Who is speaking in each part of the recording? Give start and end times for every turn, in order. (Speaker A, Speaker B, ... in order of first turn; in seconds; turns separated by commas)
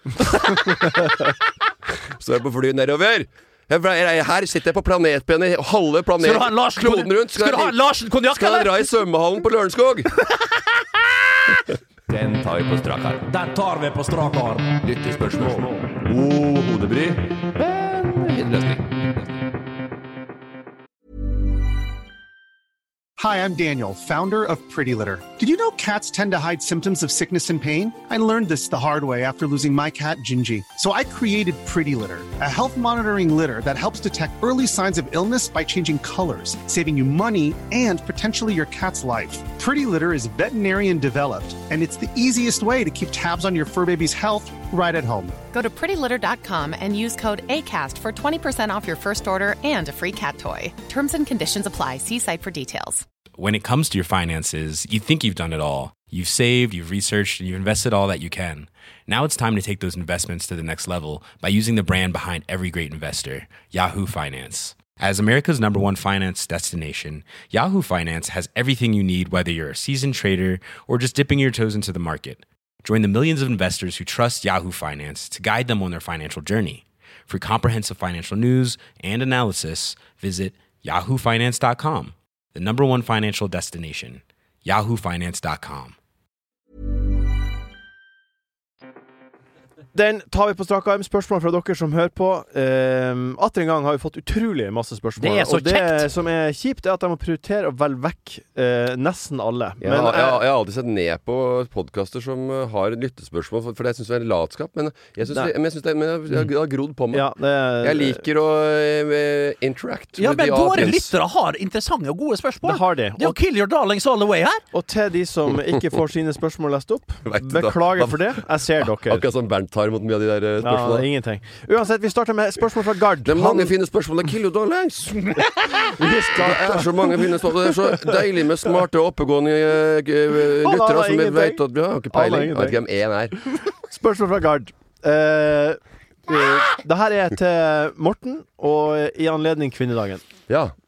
Speaker A: 0.3-1.0, Speaker A: 2.2-10.1, Speaker B: 6.2-8.9, Speaker B: 10.2-10.6, Speaker A: 12.1-13.2, Speaker B: 13.3-14.8, Speaker A: 14.8-19.1, Speaker C: 23.2-45.4, Speaker D: 45.5-53.0, Speaker E: 53.4-85.9, Speaker F: 89.9-100.4, Speaker B: 95.2-96.1, Speaker A: 99.8-111.1, Speaker F: 107.1-108.2, Speaker B: 110.2-114.6, Speaker F: 112.6-113.3, Speaker F: 114.7-119.3, Speaker A: 117.2-121.1, Speaker F: 120.6-123.7, Speaker A: 123.2-133.3, Speaker F: 126.0-127.2, Speaker F: 130.6-132.8, Speaker F: 133.5-140.2, Speaker A: 140.5-140.7